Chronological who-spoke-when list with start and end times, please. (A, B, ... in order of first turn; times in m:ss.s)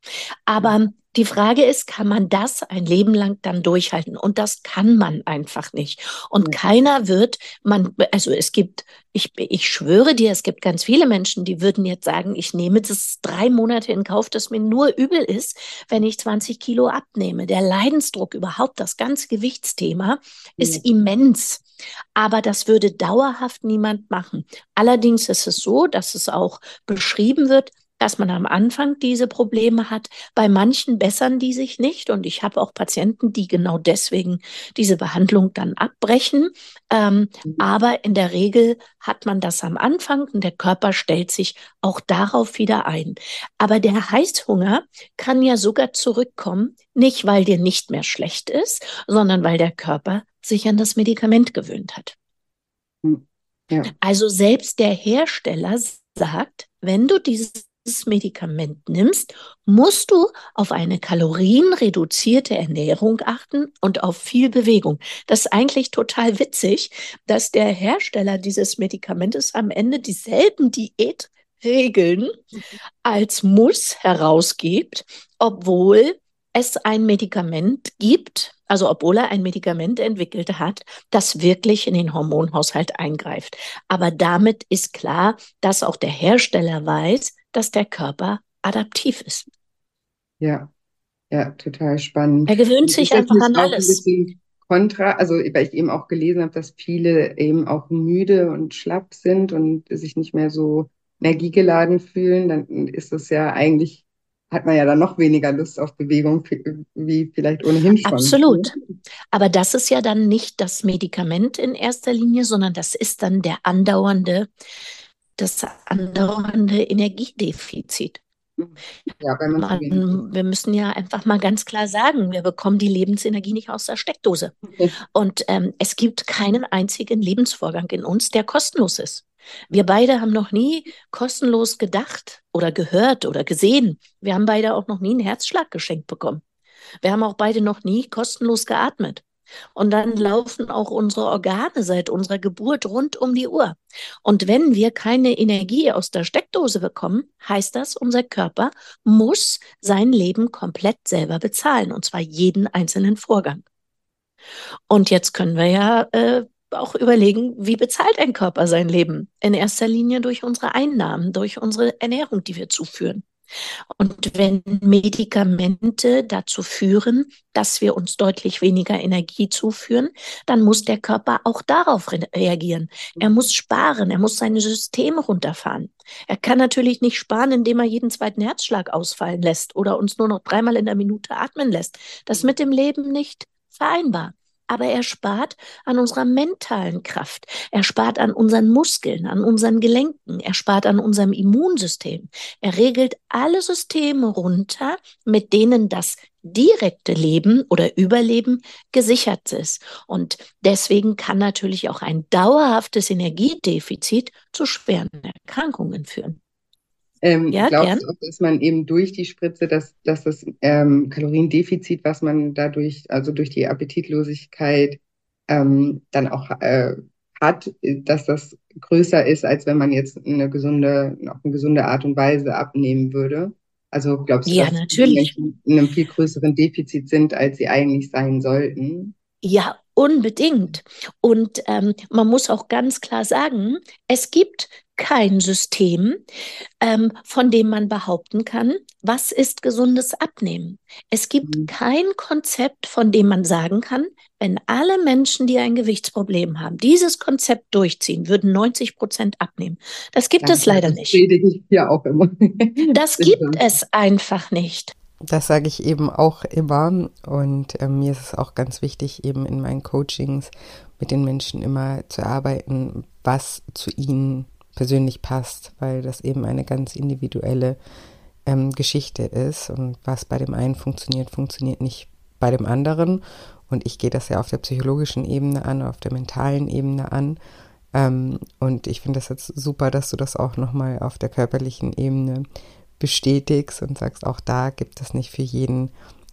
0:00.5-0:21.6 A
0:22.2-0:52.1 A
0:53.0-0:53.9 B
0:54.0-1:12.4 A
1:13.0-1:29.5 A
1:30.4-1:30.7 B
1:31.3-1:48.7 B
1:32.5-1:34.0 A
1:48.0-1:48.7 A
1:49.3-1:54.5 A
1:55.4-1:58.2 A
1:58.6-2:00.2 B
1:59.6-2:04.5 A
2:05.1-2:16.4 A
2:17.0-2:19.2 A
2:19.7-2:33.6 A
2:34.9-2:43.2 A
2:44.0-3:26.4 A
3:27.2-3:49.1 B
3:27.5-3:28.0 A
3:44.5-3:45.3 A
3:49.4-3:56.2 A
3:56.8-4:11.2 A
4:01.4-4:01.7 B
4:10.4-4:13.6 B
4:12.9-4:14.9 A
4:15.3-4:27.8 C
4:28.4-4:37.4 C
4:37.9-4:42.4 C
4:43.0-4:45.9 C